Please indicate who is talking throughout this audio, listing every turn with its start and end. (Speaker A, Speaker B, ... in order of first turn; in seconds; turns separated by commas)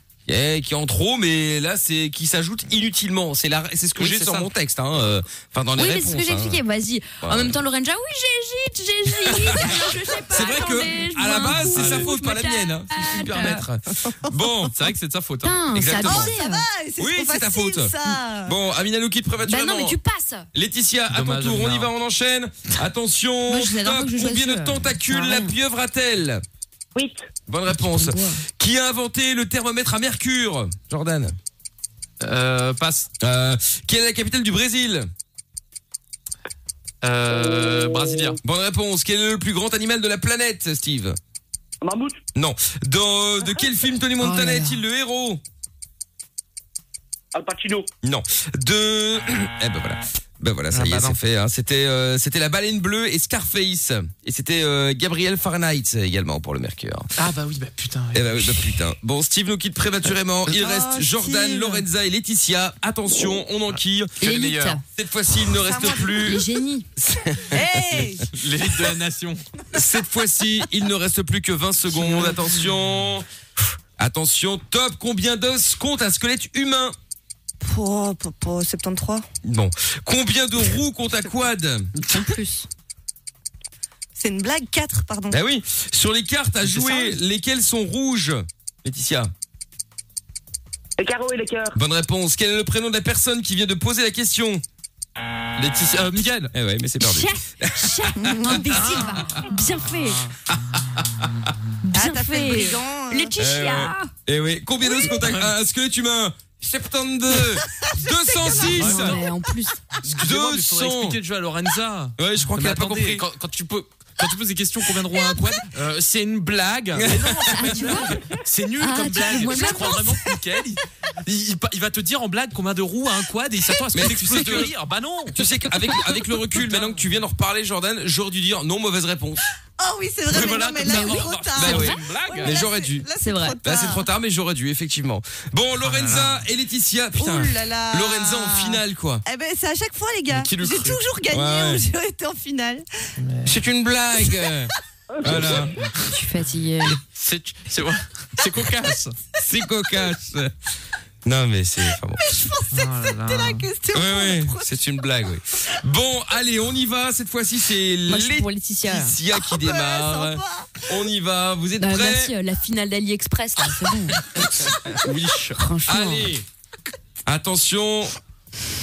Speaker A: 0.3-6.6, Speaker B: 3.9-4.5, Speaker C: 5.8-13.6, Speaker A: 7.2-7.6, Speaker A: 9.2-14.8, Speaker B: 11.7-12.1, Speaker B: 14.7-15.6, Speaker C: 15.4-16.6, Speaker A: 15.7-16.3, Speaker D: 16.0-18.6, Speaker A: 17.0-17.9, Speaker A: 18.4-20.0, Speaker C: 19.4-20.5, Speaker A: 20.5-26.4, Speaker B: 21.1-21.9, Speaker C: 23.5-25.6, Speaker E: 26.9-27.3, Speaker A: 27.5-31.4, Speaker C: 27.7-28.4, Speaker B: 32.2-33.1, Speaker A: 33.2-35.1, Speaker B: 37.0-38.4, Speaker A: 38.4-41.2, Speaker E: 41.8-42.2, Speaker A: 42.3-45.4, Speaker C: 44.2-44.8, Speaker E: 47.3-47.9, Speaker A: 48.0-57.1, Speaker B: 50.7-51.2, Speaker B: 57.2-58.8, Speaker A: 58.1-66.4, Speaker D: 60.5-61.8, Speaker B: 64.2-64.8, Speaker C: 64.2-64.8, Speaker D: 65.5-66.4, Speaker C: 66.0-66.9, Speaker A: 67.2-67.6, Speaker D: 67.3-68.3, Speaker B: 68.2-69.4, Speaker A: 69.7-77.0, Speaker D: 77.6-79.2, Speaker A: 79.4-81.9, Speaker C: 82.1-82.7, Speaker D: 84.2-85.4, Speaker A: 85.3-89.3, Speaker E: 91.0-91.8, Speaker A: 91.7-94.6, Speaker B: 95.5-96.5, Speaker A: 96.5-98.9, Speaker C: 97.0-100.2, Speaker D: 98.2-99.2, Speaker B: 99.7-100.0, Speaker A: 100.5-101.3, Speaker C: 101.8-104.1, Speaker D: 101.9-103.3, Speaker A: 103.4-109.2, Speaker B: 105.2-105.5, Speaker D: 107.5-107.9, Speaker D: 108.4-108.8, Speaker C: 108.5-109.8, Speaker B: 108.6-109.2, Speaker B: 110.0-117.2, Speaker A: 110.1-111.2, Speaker A: 112.2-113.2, Speaker A: 117.0-117.7, Speaker C: 117.3-118.2, Speaker B: 117.8-125.5, Speaker C: 118.8-120.2, Speaker A: 123.9-124.7, Speaker A: 125.3-129.4, Speaker B: 126.0-127.1, Speaker D: 129.8-134.1, Speaker B: 130.3-132.6, Speaker C: 130.9-132.0, Speaker A: 131.6-133.1, Speaker C: 133.2-133.6, Speaker A: 133.6-139.2, Speaker B: 135.8-136.4, Speaker D: 137.2-142.8, Speaker B: 140.3-141.0, Speaker A: 141.3-141.8, Speaker B: 143.2-143.6, Speaker A: 143.4-145.7, Speaker D: 144.4-144.7, Speaker E: 145.1-145.7, Speaker B: 145.3-145.9, Speaker C: 146.1-147.0, Speaker B: 147.1-149.1, Speaker A: 149.4-150.5, Speaker A: 151.2-152.3, Speaker D: 152.2-154.7, Speaker B: 152.7-153.7, Speaker A: 153.9-162.3, Speaker C: 158.1-159.2, Speaker D: 159.4-161.0, Speaker C: 161.8-164.2, Speaker A: 164.3-164.9, Speaker B: 165.0-165.6, Speaker C: 165.6-166.3, Speaker A: 165.9-166.4, Speaker A: 167.3-168.1